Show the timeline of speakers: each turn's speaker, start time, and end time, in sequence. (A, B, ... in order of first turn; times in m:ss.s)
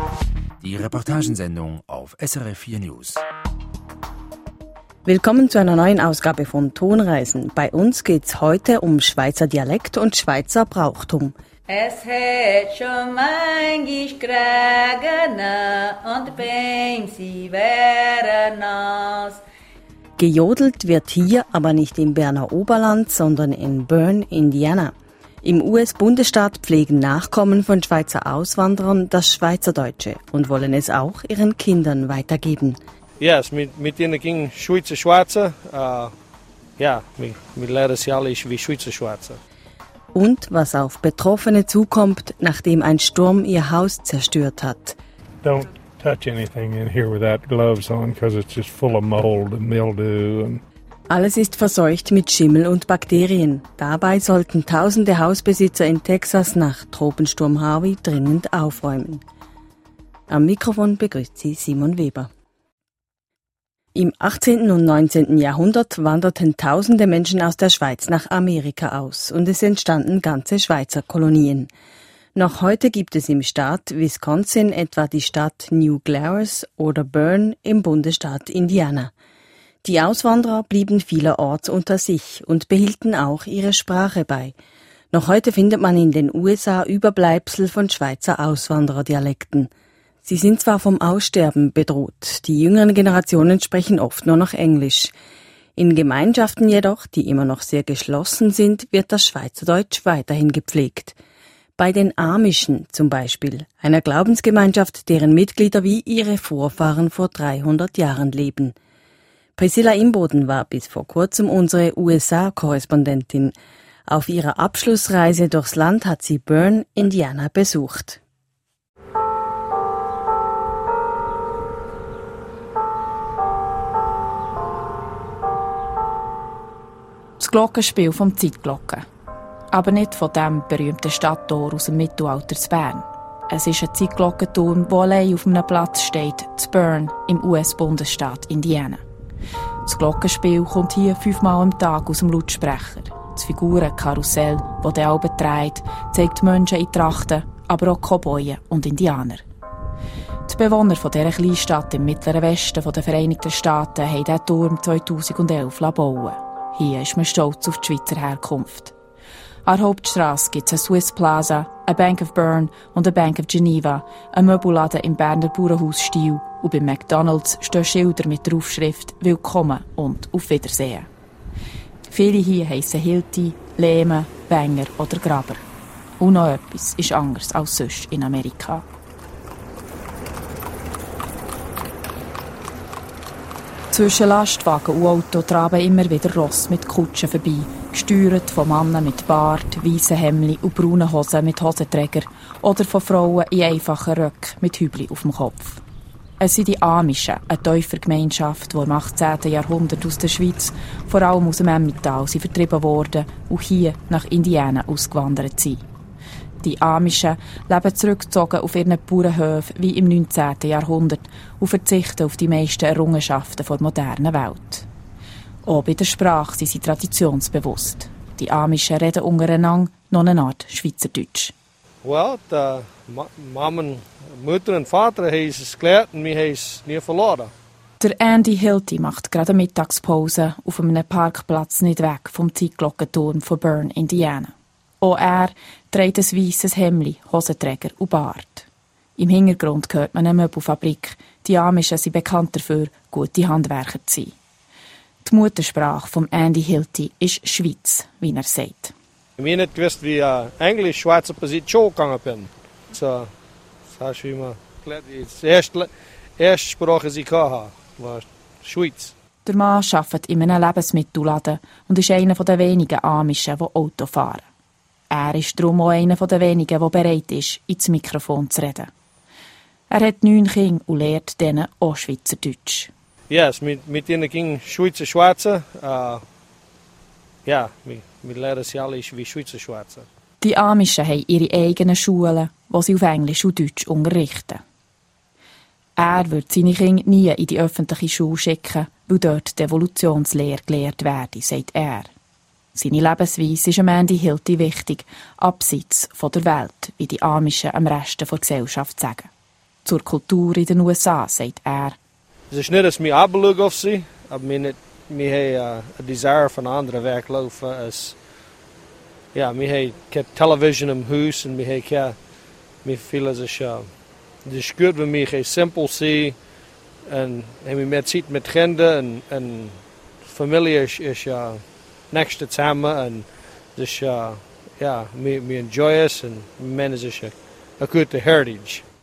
0:00.6-0:03.2 A
0:05.0-0:11.3 B
0:11.7-0:19.4 C
0:20.2-0:32.8 B
0:33.2-0:36.1 D
0:36.8-0:39.4 D
0:40.2-0:45.0 B
0:45.4-0:50.6 E
0:51.1-0:59.2 B
1:00.3-1:02.3 B
1:04.0-1:11.7 B
1:12.3-1:19.1 B
1:19.8-1:24.5 B
1:25.1-1:29.7 B
1:30.2-1:35.1 B
1:35.8-1:41.1 B
1:41.8-1:48.7 B
1:49.6-1:53.5 B
1:54.1-1:58.2 B
2:07.4-2:09.0 F
2:09.7-2:19.0 F
2:19.8-2:29.4 F
2:30.5-2:38.9 F
2:39.6-2:51.1 F
2:52.1-2:55.6 F
2:56.2-2:58.8 F
3:03.9-3:15.8 F
3:16.4-3:25.8 F
3:26.6-3:34.9 F
3:35.6-3:41.5 F
3:42.0-3:47.5 D
3:48.0-3:58.7 F
3:59.2-4:04.3 F
4:05.2-4:08.9 F
4:09.4-4:13.3 D
4:13.9-4:19.1 D
4:19.5-4:24.5 F
4:25.1-4:28.9 F
4:29.9-4:32.9 F
4:33.3-4:36.2 D
4:37.4-4:40.1 D
4:40.4-4:44.6 F
4:46.0-4:52.1 F
4:52.7-4:59.3 F
4:59.8-5:02.0 F
5:02.5-5:08.2 D
5:09.3-5:12.3 D
5:12.8-5:16.5 D
5:17.0-5:28.8 D